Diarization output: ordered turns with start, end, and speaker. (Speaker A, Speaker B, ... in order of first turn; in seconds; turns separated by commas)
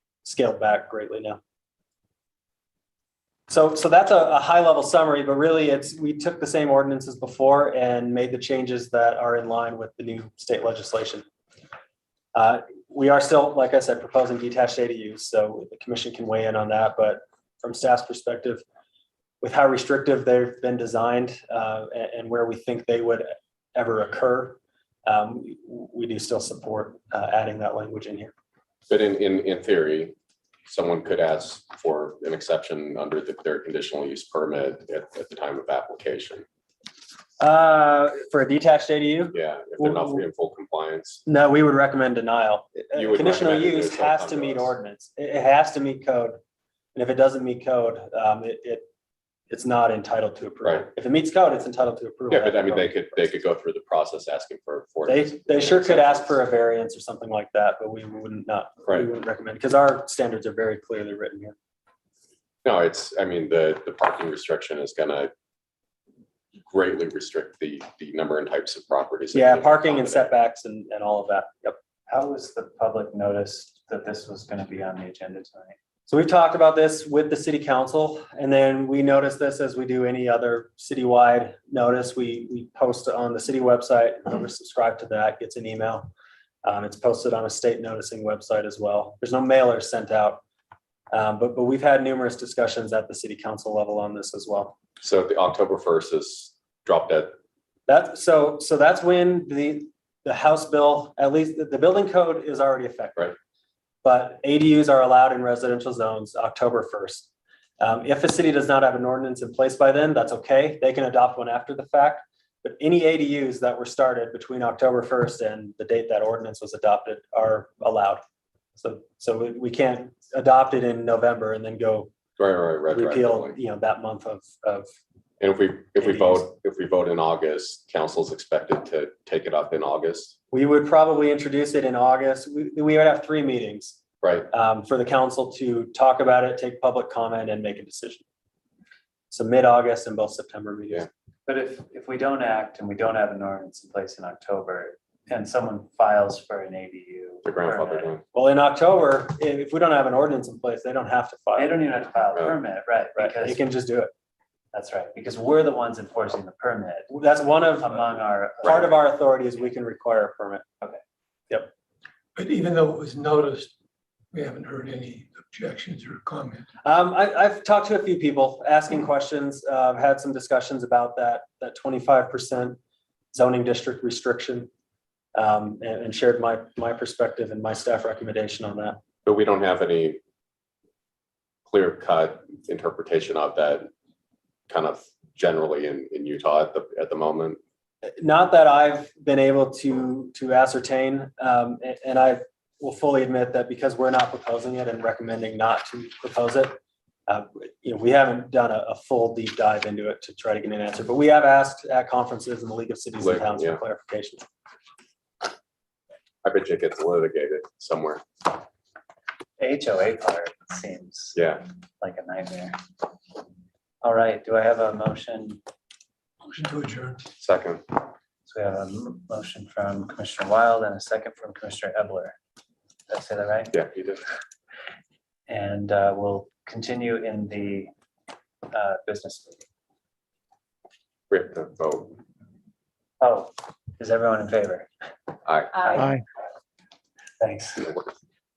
Speaker A: 0.2-1.4, Speaker A: 3.5-11.2, Speaker A: 12.3-18.6, Speaker A: 19.4-28.3, Speaker B: 28.9-30.1, Speaker B: 30.7-36.5, Speaker A: 37.4-40.2, Speaker B: 39.3-41.2, Speaker A: 41.2-46.4, Speaker B: 42.9-44.7, Speaker A: 46.9-48.9, Speaker A: 49.5-53.1, Speaker B: 52.3-56.4, Speaker A: 55.1-61.5, Speaker B: 62.6-65.3, Speaker B: 66.6-70.3, Speaker A: 69.3-71.8, Speaker C: 72.1-75.8, Speaker A: 76.1-86.1, Speaker A: 86.6-90.4, Speaker A: 91.1-94.7, Speaker B: 95.0-97.3, Speaker A: 97.9-103.3, Speaker A: 104.0-107.3, Speaker A: 107.8-118.2, Speaker A: 118.8-122.1, Speaker B: 122.4-123.6, Speaker A: 122.9-124.9, Speaker B: 125.4-130.3, Speaker A: 126.0-126.4, Speaker A: 130.5-134.0, Speaker B: 134.2-134.5, Speaker A: 134.5-138.2, Speaker A: 139.3-141.1, Speaker C: 141.5-148.1, Speaker B: 147.4-148.2, Speaker A: 148.3-151.7, Speaker C: 151.6-153.6, Speaker A: 153.2-154.1, Speaker C: 154.7-157.2, Speaker A: 157.1-158.1, Speaker C: 157.7-159.0, Speaker A: 158.6-160.6, Speaker D: 162.3-163.7, Speaker D: 164.3-166.7, Speaker A: 166.8-172.8, Speaker A: 173.3-174.7, Speaker A: 175.3-179.0, Speaker B: 179.2-180.2, Speaker B: 181.7-183.9, Speaker B: 184.7-187.6, Speaker A: 188.2-196.7, Speaker A: 197.3-204.5, Speaker B: 203.2-203.8, Speaker B: 206.4-208.2, Speaker C: 209.6-211.4, Speaker B: 211.3-211.6, Speaker C: 212.0-212.8, Speaker C: 214.0-215.6, Speaker D: 216.4-217.2, Speaker B: 217.4-218.0, Speaker C: 218.4-222.3, Speaker C: 223.1-223.7, Speaker B: 223.7-224.2, Speaker C: 225.5-227.9, Speaker C: 228.7-229.6, Speaker B: 231.3-232.2, Speaker C: 233.2-234.9, Speaker B: 235.4-236.0, Speaker C: 237.4-237.9